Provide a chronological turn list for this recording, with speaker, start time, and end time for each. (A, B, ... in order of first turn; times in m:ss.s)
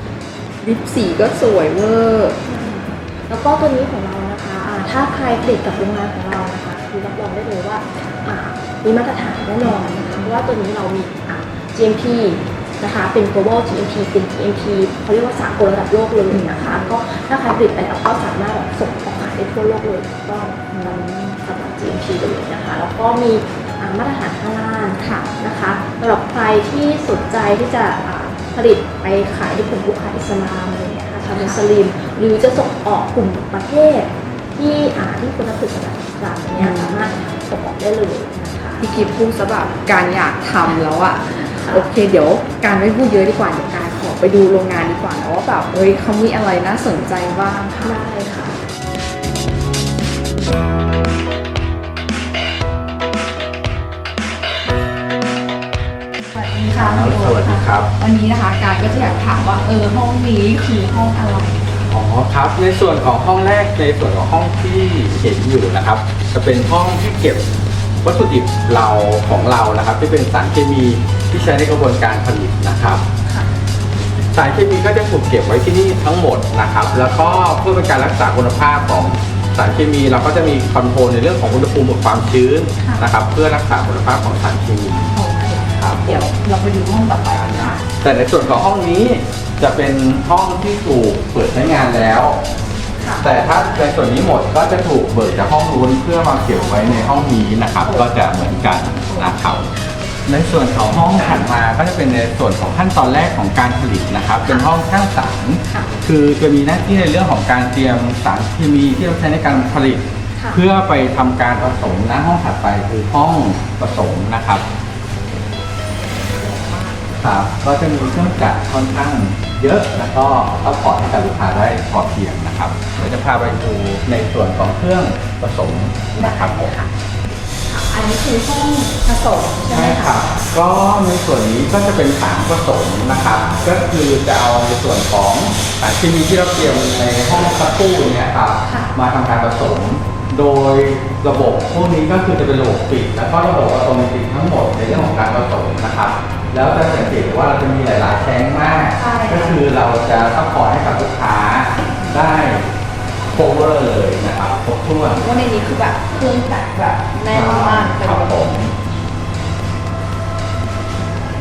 0:00.6-0:02.4 A
0:02.4-0:38.9 B
0:09.6-0:10.4 A
0:16.3-0:16.9 A
0:20.7-0:21.4 A
0:25.0-0:25.3 A
0:36.5-0:37.1 A
0:38.8-0:48.0 A
0:41.5-0:41.9 B
0:47.8-0:48.6 B
0:56.3-1:01.6 A
0:56.7-0:57.9 C
1:01.9-1:07.4 C
1:08.0-1:13.0 C
1:14.3-1:25.1 C
1:22.8-1:23.0 A
1:25.1-1:27.8 A
1:25.7-1:26.2 C
1:27.4-1:32.4 C
1:33.0-1:33.6 A
1:33.2-1:39.7 C
1:36.5-1:37.2 A
1:37.8-1:38.3 A
1:38.9-1:39.4 A
1:40.2-1:54.6 C
1:56.1-1:57.0 A
1:57.2-2:06.8 C
2:06.1-2:06.9 A
2:07.7-2:10.3 A
2:09.7-2:32.7 C
2:13.2-2:13.5 A
2:18.6-2:18.9 A
2:24.9-2:25.1 A
2:28.9-2:29.6 A
2:32.0-2:32.3 A
2:33.3-2:35.2 C
2:35.2-2:38.7 A
2:37.3-2:38.7 C